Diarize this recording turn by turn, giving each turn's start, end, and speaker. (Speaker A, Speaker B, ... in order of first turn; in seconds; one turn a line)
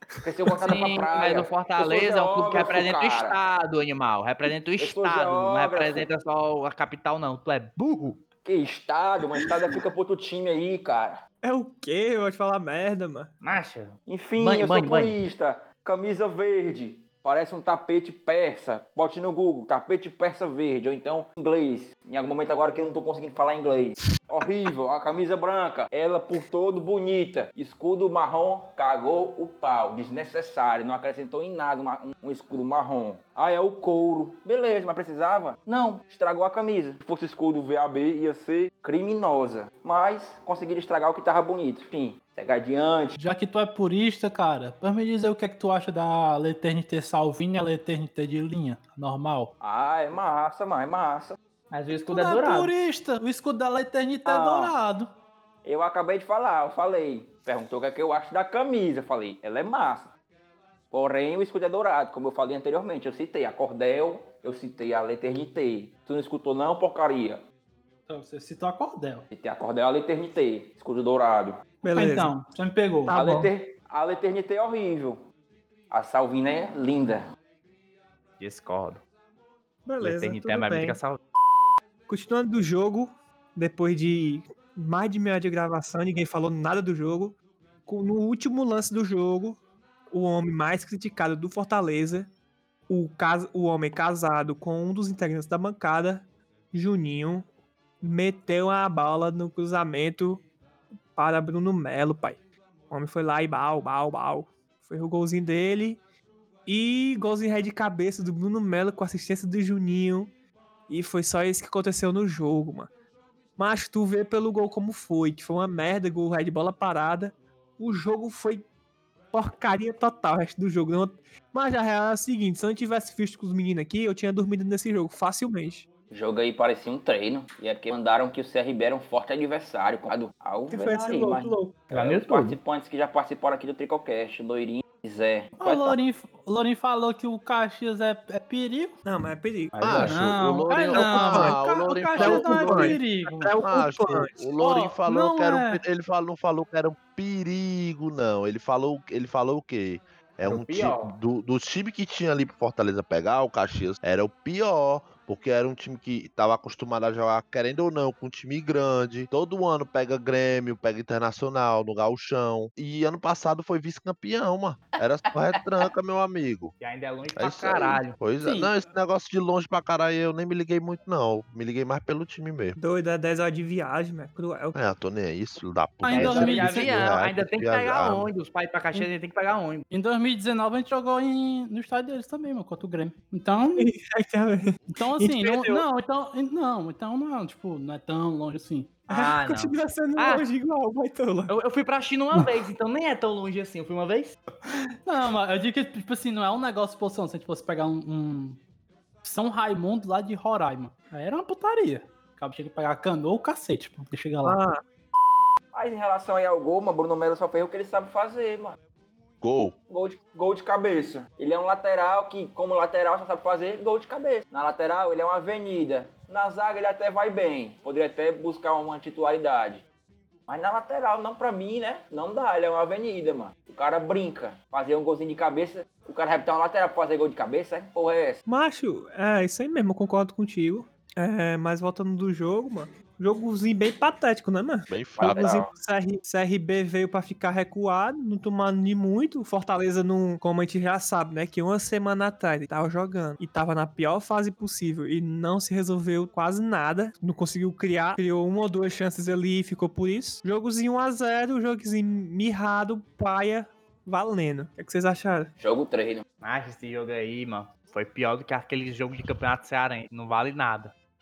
Speaker A: 0.2-3.4
Speaker B: 0.5-0.7
Speaker C: 0.6-8.2
Speaker A: 4.8-6.1
Speaker A: 8.4-11.2
Speaker B: 11.4-13.3
Speaker C: 13.4-15.2
Speaker A: 14.1-43.2
Speaker C: 35.7-36.0
Speaker D: 43.2-49.5
Speaker A: 49.6-51.4
Speaker C: 51.7-52.7
Speaker D: 52.1-55.1
Speaker A: 54.3-54.7
Speaker A: 55.6-60.1
Speaker A: 60.9-67.4
Speaker D: 68.1-69.3
Speaker A: 69.3-71.6
Speaker B: 71.8-72.3
Speaker D: 71.9-73.1
Speaker B: 73.1-73.5
Speaker A: 73.1-75.2
Speaker A: 75.9-77.2
Speaker C: 78.4-79.0
Speaker B: 79.9-81.0
Speaker C: 80.0-81.2
Speaker B: 82.1-89.6
Speaker B: 90.1-92.3
Speaker B: 92.9-97.5
Speaker B: 98.0-100.4
Speaker B: 101.1-102.4
Speaker B: 102.9-106.0
Speaker B: 106.7-110.3
Speaker B: 110.9-112.9
Speaker B: 113.6-118.7
Speaker B: 119.3-125.9
Speaker A: 126.1-136.0
Speaker B: 130.7-131.8
Speaker C: 131.9-132.6
Speaker D: 135.6-139.0
Speaker B: 139.1-140.1
Speaker C: 139.7-140.2
Speaker E: 139.8-143.1
Speaker D: 140.0-143.6
Speaker B: 140.9-141.6
Speaker B: 142.2-144.5
Speaker E: 143.6-166.7
Speaker D: 144.6-145.8
Speaker C: 150.4-151.2
Speaker C: 166.8-168.3
Speaker E: 167.4-172.8
Speaker D: 168.4-168.7
Speaker B: 172.8-174.8
Speaker E: 174.7-178.3
Speaker D: 176.0-176.9
Speaker C: 176.1-179.8
Speaker D: 179.9-183.9
Speaker B: 183.8-185.8
Speaker D: 184.9-189.1
Speaker C: 189.1-190.4
Speaker B: 189.1-191.5
Speaker C: 191.5-194.4
Speaker D: 195.1-198.6
Speaker D: 199.2-204.6
Speaker B: 204.4-204.8
Speaker A: 205.7-208.8
Speaker E: 209.4-209.7
Speaker A: 209.9-219.8
Speaker A: 220.5-228.4
Speaker B: 228.5-255.5
Speaker E: 234.9-235.5
Speaker A: 235.2-235.7
Speaker A: 255.6-256.2
Speaker C: 256.4-260.9